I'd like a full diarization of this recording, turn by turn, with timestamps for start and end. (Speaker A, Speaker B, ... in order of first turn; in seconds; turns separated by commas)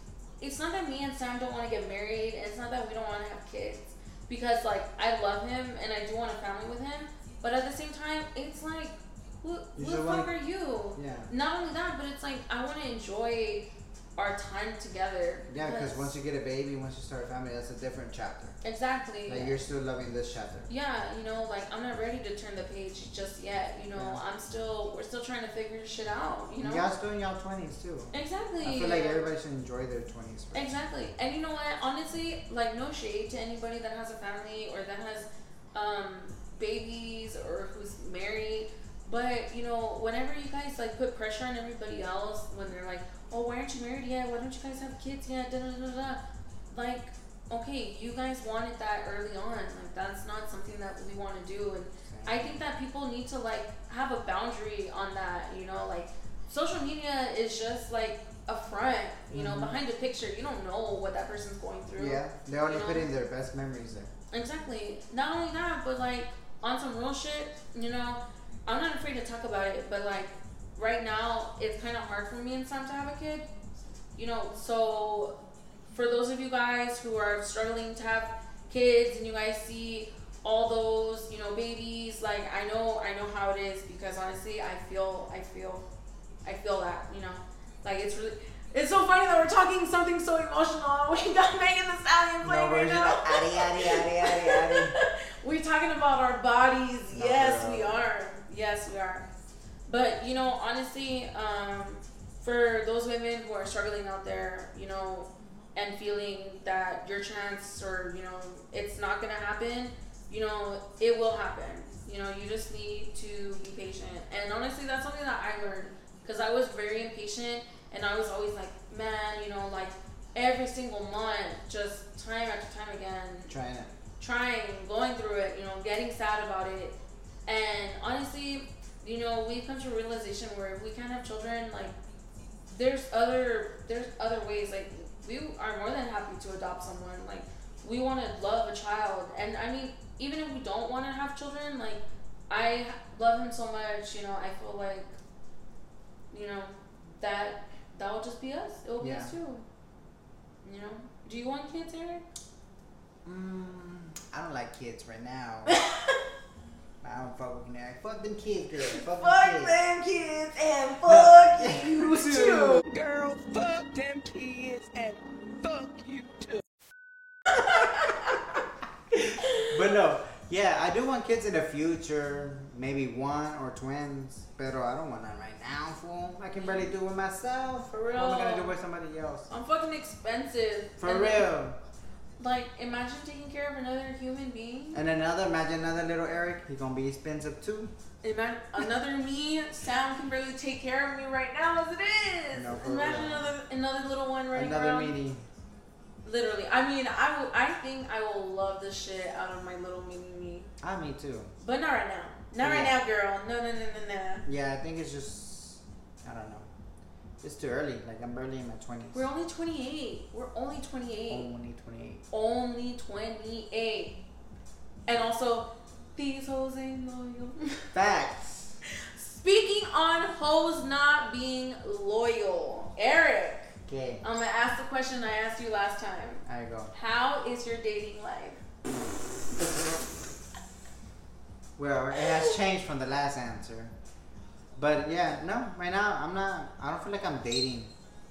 Speaker A: 0.4-16.1, Speaker B: 9.8-10.3, Speaker B: 10.9-11.3, Speaker B: 15.5-18.6, Speaker A: 18.6-19.6, Speaker B: 19.3-20.7, Speaker A: 20.7-26.9, Speaker B: 23.9-24.2, Speaker B: 26.6-30.7, Speaker A: 28.1-29.2, Speaker A: 30.5-63.1, Speaker B: 52.1-52.5, Speaker B: 59.3-59.8, Speaker B: 62.0-64.1, Speaker A: 64.3-73.5, Speaker A: 74.2-75.3, Speaker A: 75.9-85.8, Speaker A: 86.4-99.3, Speaker B: 92.4-95.0, Speaker B: 97.1-98.0, Speaker A: 99.9-123.5, Speaker B: 123.5-123.9, Speaker A: 124.2-131.9, Speaker A: 132.7-145.1, Speaker A: 146.3-149.6, Speaker B: 149.0-149.3, Speaker A: 150.6-152.2, Speaker B: 153.2-155.8, Speaker A: 155.7-156.2, Speaker B: 157.0-159.8, Speaker A: 158.8-162.8, Speaker B: 161.0-162.8, Speaker C: 162.8-166.6, Speaker B: 169.1-179.5, Speaker A: 176.6-176.9, Speaker A: 177.9-178.7, Speaker A: 179.5-181.5, Speaker B: 181.0-181.8, Speaker A: 182.4-185.0, Speaker B: 184.9-187.9, Speaker A: 188.2-195.2, Speaker B: 192.5-193.5, Speaker B: 194.5-195.4, Speaker A: 196.2-200.7, Speaker B: 200.8-201.5, Speaker A: 201.6-204.4, Speaker B: 202.6-202.9, Speaker B: 204.4-206.7, Speaker B: 207.4-209.2, Speaker A: 209.1-211.5, Speaker B: 211.3-212.2, Speaker A: 212.3-214.2, Speaker A: 215.1-217.9, Speaker B: 217.9-218.8, Speaker A: 218.9-228.6, Speaker B: 223.8-224.2, Speaker B: 226.4-226.9, Speaker B: 231.8-233.9, Speaker B: 234.8-237.9